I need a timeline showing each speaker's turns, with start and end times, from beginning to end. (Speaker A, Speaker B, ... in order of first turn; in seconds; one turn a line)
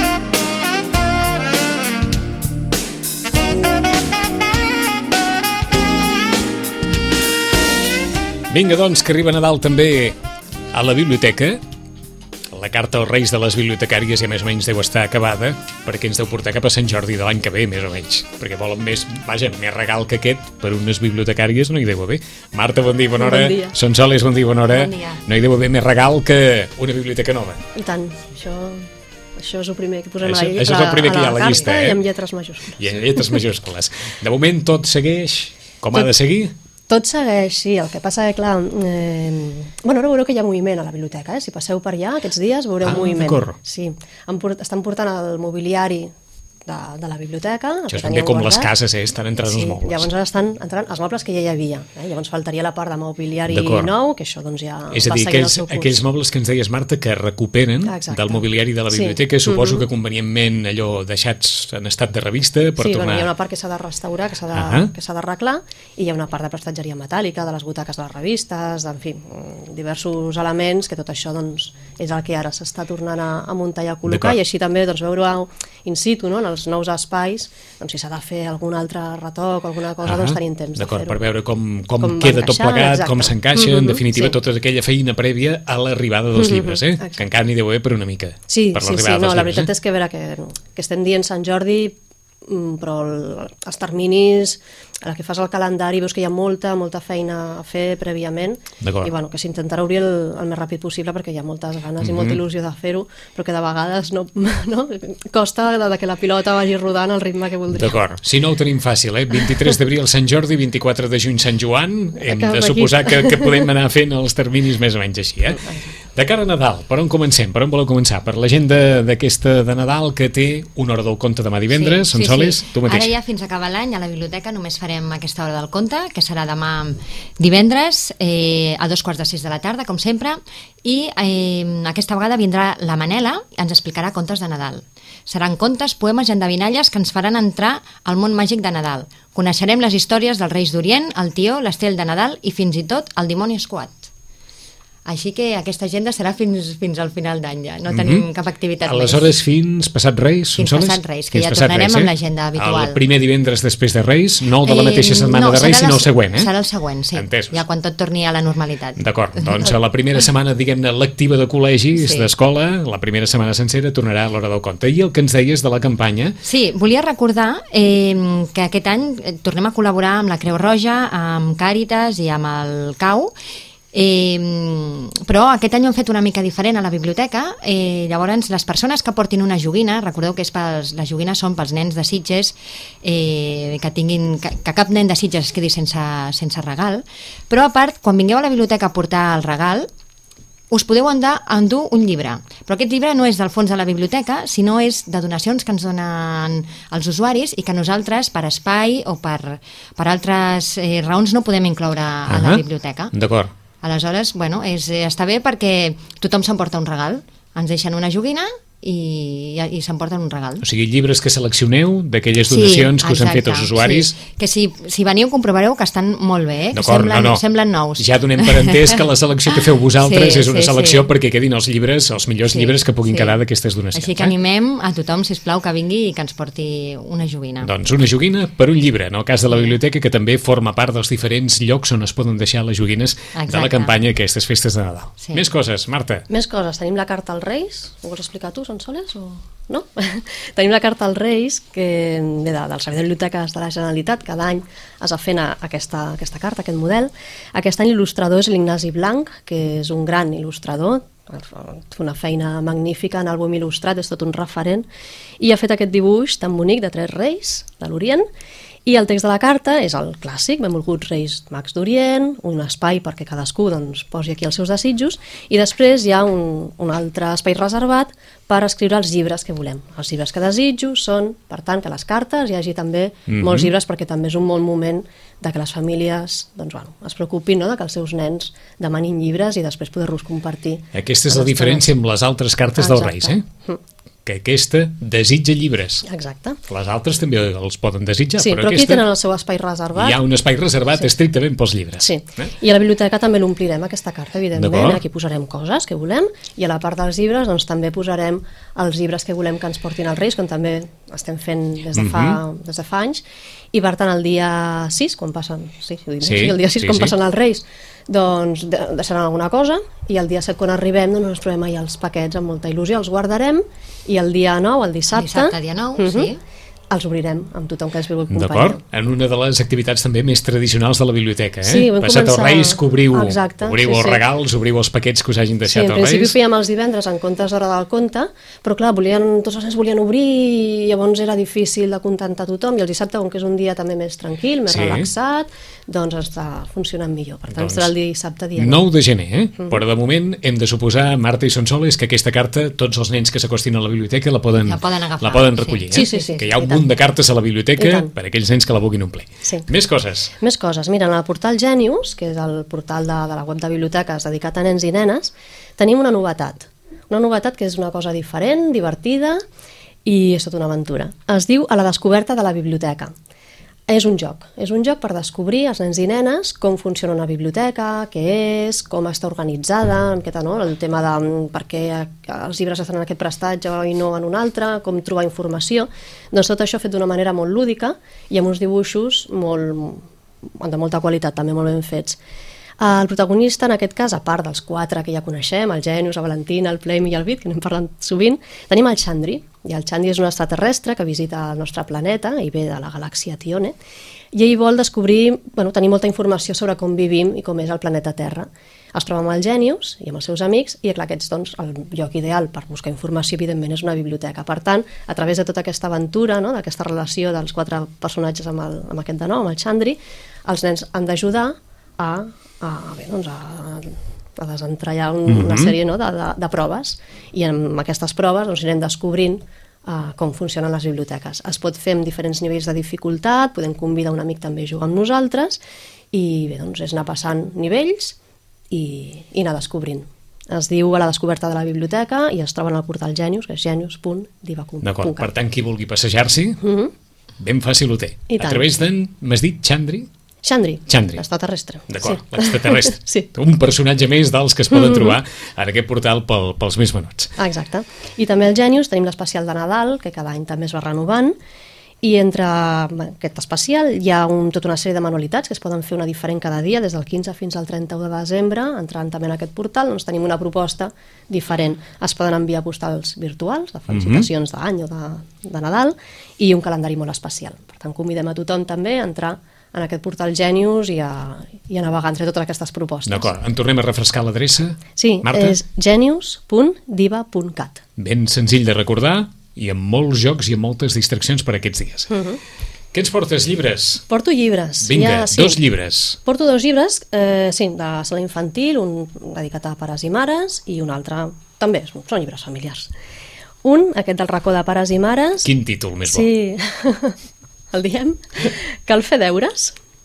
Speaker A: 8.5-10.2
Speaker A: 10.7-11.6
Speaker A: 12.5-27.6
Speaker B: 23.2-23.7
Speaker C: 24.7-25.2
Speaker B: 27.7-32.8
Speaker A: 30.2-32.0
Speaker C: 31.3-31.7
Speaker A: 32.8-36.5
Speaker B: 36.9-46.1
Speaker A: 42.8-43.5
Speaker B: 46.6-48.7
Speaker A: 47.9-50.1
Speaker B: 49.4-56.0
Speaker A: 53.5-53.9
Speaker A: 54.9-63.3
Speaker B: 57.8-59.8
Speaker B: 62.8-81.2
Speaker A: 64.5-64.9
Speaker A: 74.1-74.4
Speaker A: 80.0-89.7
Speaker B: 82.0-84.4
Speaker B: 86.3-87.2
Speaker B: 88.5-108.0
Speaker A: 98.8-99.1
Speaker A: 102.0-102.4
Speaker A: 107.7-123.1
Speaker B: 112.2-113.7
Speaker B: 115.6-115.9
Speaker C: 121.7-144.1
Speaker C: 145.1-149.3
Speaker A: 147.9-148.2
Speaker A: 148.8-156.5
Speaker C: 150.6-153.0
Speaker C: 154.6-159.7
Speaker A: 157.1-157.6
Speaker A: 159.0-166.4
Speaker C: 161.9-162.3
Speaker C: 166.4-173.3
Speaker C: 173.9-189.9
Speaker C: 190.7-203.1
Speaker A: 202.3-203.5
Speaker C: 203.8-210.6
Speaker A: 210.6-214.1
Speaker C: 212.5-219.0
Speaker A: 216.7-217.4
Speaker A: 217.9-224.3
Speaker C: 219.9-221.1
Speaker C: 222.5-223.4
Speaker C: 223.9-227.7
Speaker A: 227.6-236.3
Speaker C: 233.3-233.9
Speaker B: 236.3-254.8
Speaker B: 255.4-258.2
Speaker B: 258.9-281.9
Speaker A: 273.3-273.7
Speaker A: 280.9-283.4
Speaker B: 282.8-283.8
Speaker A: 284.2-286.0
Speaker B: 286.0-286.6
Speaker A: 286.7-289.0
Speaker B: 288.4-290.2
Speaker A: 289.9-292.4
Speaker B: 292.0-316.3
Speaker A: 294.5-295.0
Speaker A: 301.9-302.4
Speaker A: 306.2-307.1
Speaker C: 315.1-316.4
Speaker B: 316.9-318.8
Speaker A: 318.3-326.4
Speaker B: 321.6-324.2
Speaker B: 325.6-338.9
Speaker A: 334.7-335.1
Speaker A: 337.5-337.9
Speaker A: 338.6-350.3
Speaker C: 344.6-346.3
Speaker B: 345.9-346.9
Speaker B: 347.8-348.1
Speaker B: 350.4-359.4
Speaker B: 360.0-363.1
Speaker B: 363.9-382.2
Speaker B: 382.8-393.8
Speaker B: 394.3-425.6
Speaker A: 415.3-415.7
Speaker B: 426.1-428.1
Speaker B: 428.7-435.3
Speaker A: 434.8-436.6
Speaker B: 436.6-436.9
Speaker A: 437.4-440.1
Speaker B: 438.3-438.7
Speaker B: 440.4-443.3
Speaker A: 440.9-441.2
Speaker A: 441.9-447.4
Speaker B: 444.7-445.1
Speaker B: 447.4-451.4
Speaker B: 452.0-473.3
Speaker A: 463.9-464.3
Speaker A: 473.1-475.6
Speaker B: 475.0-477.8
Speaker A: 478.0-482.1
Speaker B: 482.1-482.4
Speaker A: 482.9-484.0
Speaker B: 484.1-485.6
Speaker A: 484.8-486.2
Speaker B: 486.2-492.9
Speaker B: 493.6-495.5
Speaker A: 495.4-496.3
Speaker B: 496.1-497.2
Speaker B: 497.7-499.8